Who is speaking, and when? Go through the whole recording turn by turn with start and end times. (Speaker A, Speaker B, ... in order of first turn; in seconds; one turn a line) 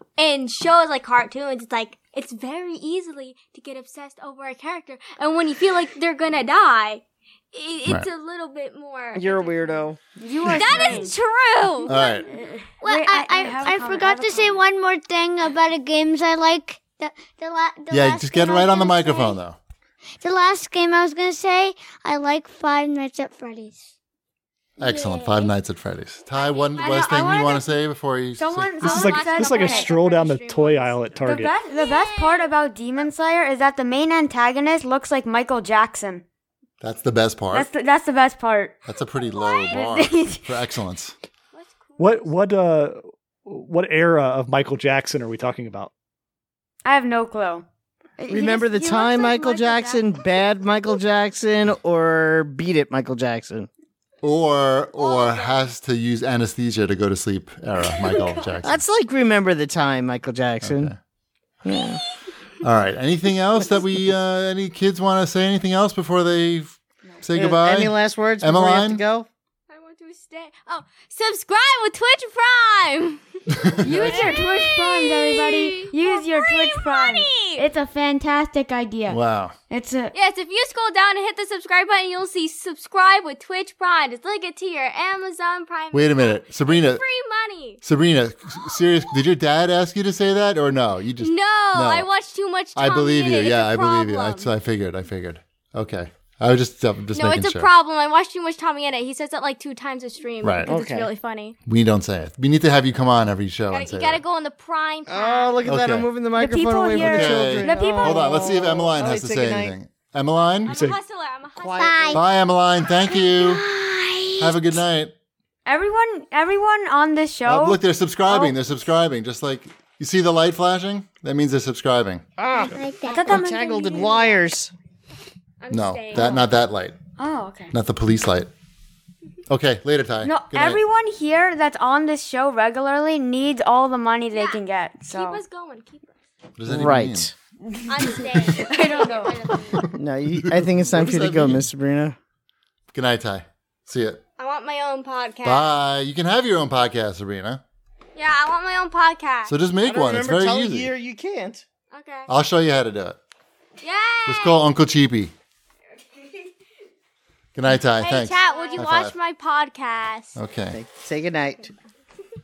Speaker A: 0.2-9.8
Speaker B: 9.2-10.0
Speaker C: 10.2-11.2
Speaker A: 10.5-12.0
Speaker C: 11.8-14.6
Speaker D: 11.9-12.3
Speaker E: 12.8-19.4
Speaker D: 17.9-19.6
Speaker E: 20.2-23.9
Speaker D: 24.8-28.7
Speaker E: 24.8-25.5
Speaker A: 26.8-27.6
Speaker C: 26.9-27.6
Speaker C: 28.4-29.9
Speaker A: 28.8-31.3
Speaker F: 28.8-31.5
Speaker C: 31.3-36.2
Speaker E: 31.8-32.5
Speaker D: 36.8-37.7
Speaker C: 37.5-38.8
Speaker D: 38.9-41.1
Speaker C: 39.7-40.5
Speaker F: 42.0-45.9
Speaker C: 46.9-47.7
Speaker C: 48.2-50.1
Speaker B: 48.3-53.7
Speaker D: 54.2-58.8
Speaker B: 58.6-60.9
Speaker D: 60.6-61.0
Speaker B: 61.6-62.0
Speaker D: 62.6-69.0
Speaker B: 67.3-69.3
Speaker A: 69.7-77.7
Speaker D: 73.5-74.3
Speaker C: 73.8-79.2
Speaker D: 79.1-79.5
Speaker C: 79.7-80.1
Speaker A: 80.1-87.8
Speaker D: 85.9-87.0
Speaker D: 87.8-92.1
Speaker A: 91.2-94.5
Speaker D: 92.8-97.7
Speaker A: 97.1-101.5
Speaker D: 100.4-100.7
Speaker B: 100.7-101.1
Speaker D: 101.7-104.2
Speaker A: 103.7-105.6
Speaker B: 105.1-109.8
Speaker D: 105.7-106.1
Speaker C: 106.3-108.7
Speaker D: 107.0-110.8
Speaker A: 110.7-112.1
Speaker F: 110.7-111.0
Speaker B: 111.6-112.2
Speaker E: 111.7-112.2
Speaker D: 112.1-113.7
Speaker E: 113.0-114.6
Speaker D: 114.4-115.1
Speaker C: 115.7-118.5
Speaker D: 117.5-122.2
Speaker B: 122.4-124.7
Speaker E: 122.6-123.4
Speaker C: 123.1-124.2
Speaker A: 125.6-126.5
Speaker D: 125.7-127.0
Speaker C: 127.2-127.7
Speaker D: 127.7-128.5
Speaker D: 129.5-130.8
Speaker C: 130.2-135.4
Speaker A: 134.3-136.1
Speaker D: 136.6-137.3
Speaker B: 136.7-137.3
Speaker C: 137.8-139.8
Speaker A: 137.9-139.8
Speaker D: 139.8-141.7
Speaker B: 139.9-142.2
Speaker D: 142.9-144.2
Speaker A: 144.4-145.7
Speaker D: 145.4-147.6
Speaker A: 148.2-149.5
Speaker D: 149.5-150.9
Speaker B: 149.8-151.6
Speaker A: 151.9-152.3
Speaker D: 152.3-153.2
Speaker A: 153.8-154.6
Speaker D: 154.3-155.3
Speaker D: 157.6-159.1
Speaker A: 158.0-160.4
Speaker D: 160.4-160.8
Speaker B: 160.7-161.7